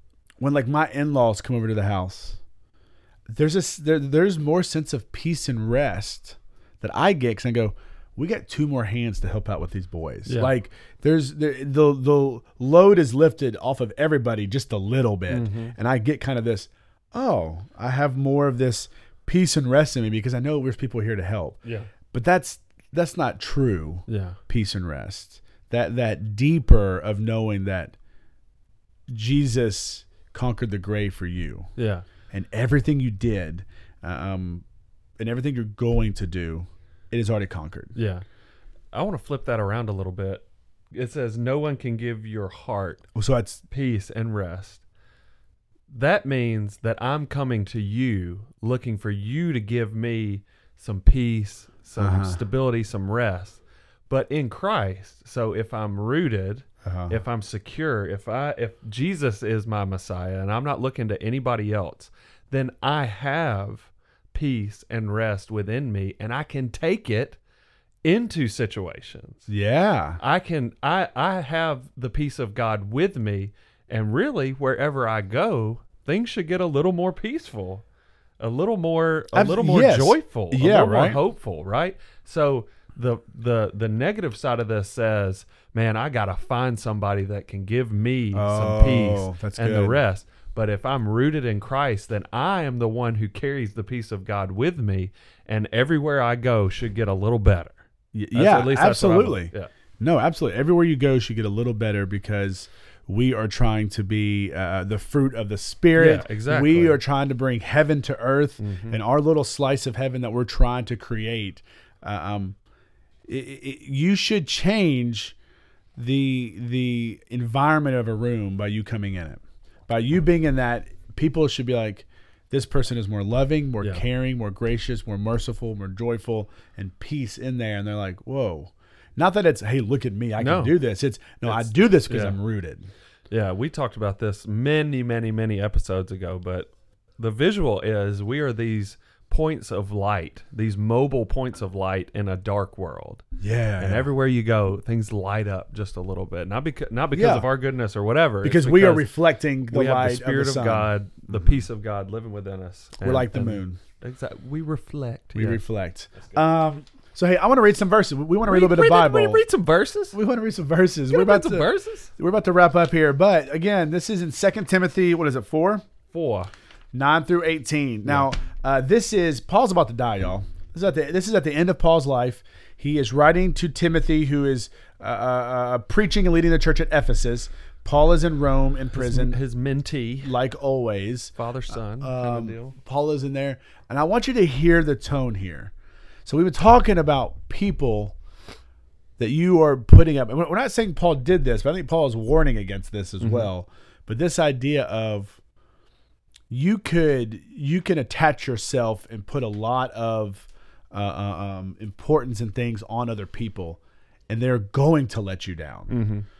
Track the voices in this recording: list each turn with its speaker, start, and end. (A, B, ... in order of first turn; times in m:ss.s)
0:00.4-0:02.4 A
0:03.3-0:21.6 A
0:10.2-0:10.5 B
0:15.3-0:15.8 B
0:21.6-0:21.9 B
0:22.1-0:27.9 A
0:24.1-0:24.4 B
0:29.1-0:31.7 A
0:31.8-0:32.0 B
0:32.3-0:34.6 A
0:35.2-0:37.9 A
0:37.9-0:38.2 B
0:38.9-0:43.0 B
0:43.1-0:43.6 A
0:43.7-0:44.8 B
0:45.9-1:07.4 B
0:52.0-0:52.4 A
0:56.8-0:57.2 A
1:08.0-1:09.5 B
1:09.5-1:10.2 A
1:10.2-1:17.8 B
1:18.4-1:37.8 B
1:19.3-1:21.2 A
1:28.3-1:30.0 A
1:38.1-1:52.6 A
1:38.3-1:39.7 B
1:45.9-1:47.0 B
1:48.6-1:49.0 B
1:53.3-1:55.3 A
1:56.0-2:12.9 A
2:10.4-2:10.8 B
2:11.4-2:12.4 B
2:13.3-2:23.2 B
2:23.4-2:24.1 A
2:23.8-2:29.1 B
2:27.1-2:27.5 A
2:28.4-2:31.6 A
2:29.7-2:35.6 B
2:33.0-2:33.8 A
2:35.3-2:39.4 A
2:38.4-2:40.2 B
2:40.1-2:45.8 A
2:41.1-2:42.1 B
2:46.1-2:46.5 B
2:46.9-2:59.4 A
2:58.9-3:00.3 B
3:00.2-3:05.7 A
3:01.4-3:02.8 B
3:06.2-3:08.2 A
3:09.2-3:15.4 A
3:13.2-3:13.5 B
3:16.5-3:26.0 A
3:25.9-3:26.2 B